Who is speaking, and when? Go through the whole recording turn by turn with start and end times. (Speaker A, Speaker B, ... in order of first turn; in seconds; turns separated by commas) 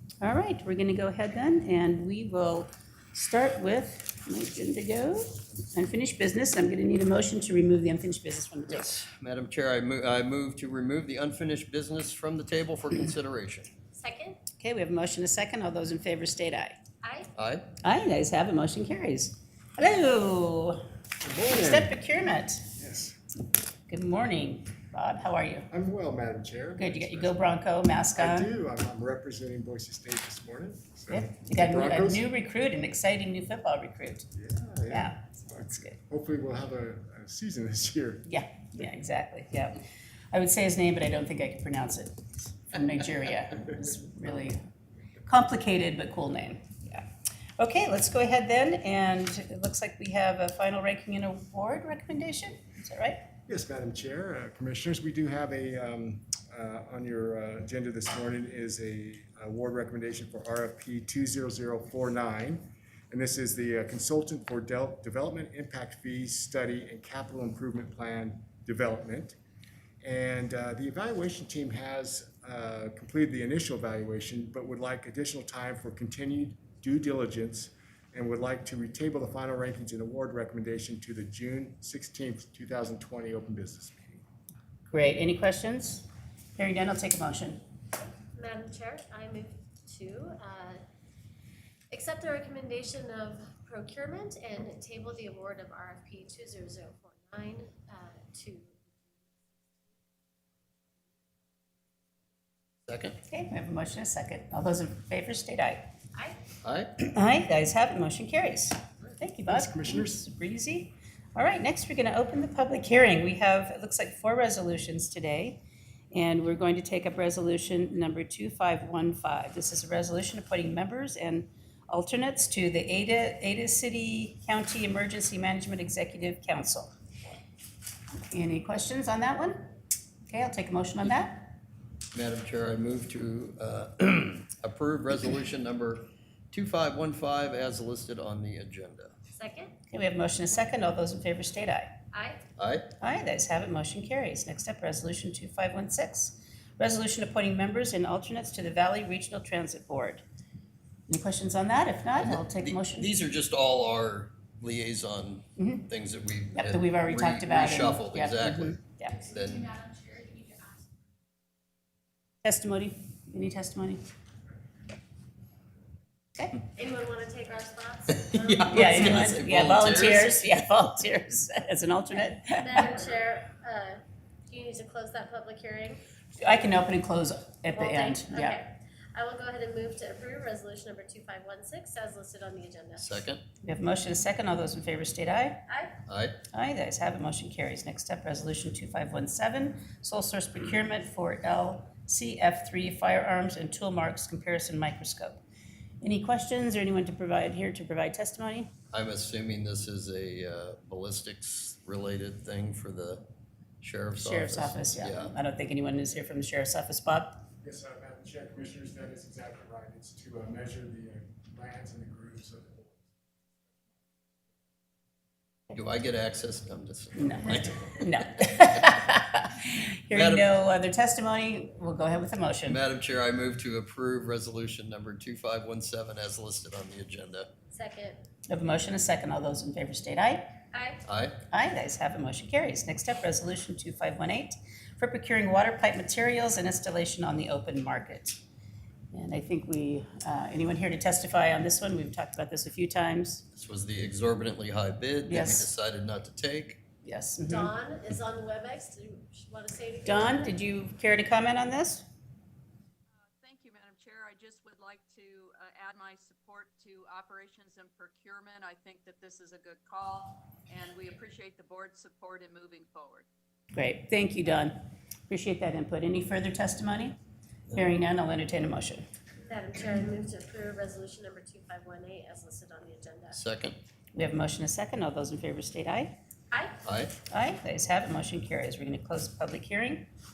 Speaker A: 0.2-9.0, Speaker B: 8.7-13.7, Speaker C: 13.9-14.4, Speaker A: 14.6-16.7, Speaker C: 17.0-17.3, Speaker B: 17.4-17.6, Speaker A: 17.8-20.8, Speaker D: 21.2-21.9, Speaker A: 21.4-22.7, Speaker D: 22.7-23.1, Speaker A: 23.9-25.7, Speaker D: 25.7-27.4, Speaker A: 26.8-28.5, Speaker D: 28.2-32.2, Speaker A: 31.1-34.3, Speaker D: 34.3-38.2, Speaker A: 34.9-36.0, Speaker A: 38.3-44.6, Speaker A: 45.2-47.0, Speaker A: 47.6-53.2, Speaker D: 53.5-69.4, Speaker D: 70.0-84.2, Speaker A: 84.9-86.0, Speaker A: 86.6-87.6, Speaker C: 88.3-90.8, Speaker C: 91.9-99.3, Speaker B: 102.9-103.2, Speaker A: 103.3-105.8, Speaker B: 106.6-106.9, Speaker A: 107.0-115.6, Speaker D: 109.5-110.2, Speaker A: 116.1-126.9, Speaker A: 128.3-129.7, Speaker A: 130.3-131.5, Speaker B: 132.1-139.1, Speaker C: 139.3-139.7, Speaker A: 139.9-141.9, Speaker C: 142.1-142.4, Speaker B: 142.6-142.9, Speaker A: 143.0-150.2, Speaker A: 151.1-153.1, Speaker B: 152.2-159.9, Speaker A: 155.6-155.9, Speaker A: 156.5-159.2, Speaker A: 162.4-164.0, Speaker C: 166.7-169.4, Speaker B: 168.3-170.3, Speaker A: 168.7-172.8, Speaker C: 172.6-176.0, Speaker A: 176.4-178.6, Speaker C: 177.7-183.2, Speaker B: 183.0-183.4, Speaker A: 183.6-185.6, Speaker C: 185.7-186.0, Speaker B: 186.1-186.4, Speaker A: 186.5-195.4, Speaker A: 196.0-198.7, Speaker B: 198.9-203.2, Speaker B: 203.8-205.3, Speaker A: 204.2-207.4, Speaker D: 207.6-213.2, Speaker D: 213.7-214.5, Speaker B: 215.7-217.7, Speaker A: 217.2-222.8, Speaker B: 220.1-220.5, Speaker B: 222.7-227.5, Speaker C: 227.7-228.2, Speaker A: 228.5-230.5, Speaker C: 230.7-231.0, Speaker B: 231.1-231.3, Speaker A: 231.5-238.4, Speaker A: 239.1-243.4, Speaker B: 243.5-246.8, Speaker A: 245.3-245.7, Speaker A: 247.0-247.7, Speaker C: 247.4-250.5, Speaker A: 250.0-252.0, Speaker E: 253.2-263.2, Speaker A: 263.7-264.8, Speaker A: 265.3-267.1, Speaker A: 267.7-269.0, Speaker C: 269.4-273.4, Speaker B: 273.3-273.8, Speaker A: 274.1-276.1, Speaker C: 276.5-276.8, Speaker B: 276.8-277.1, Speaker A: 277.3-280.1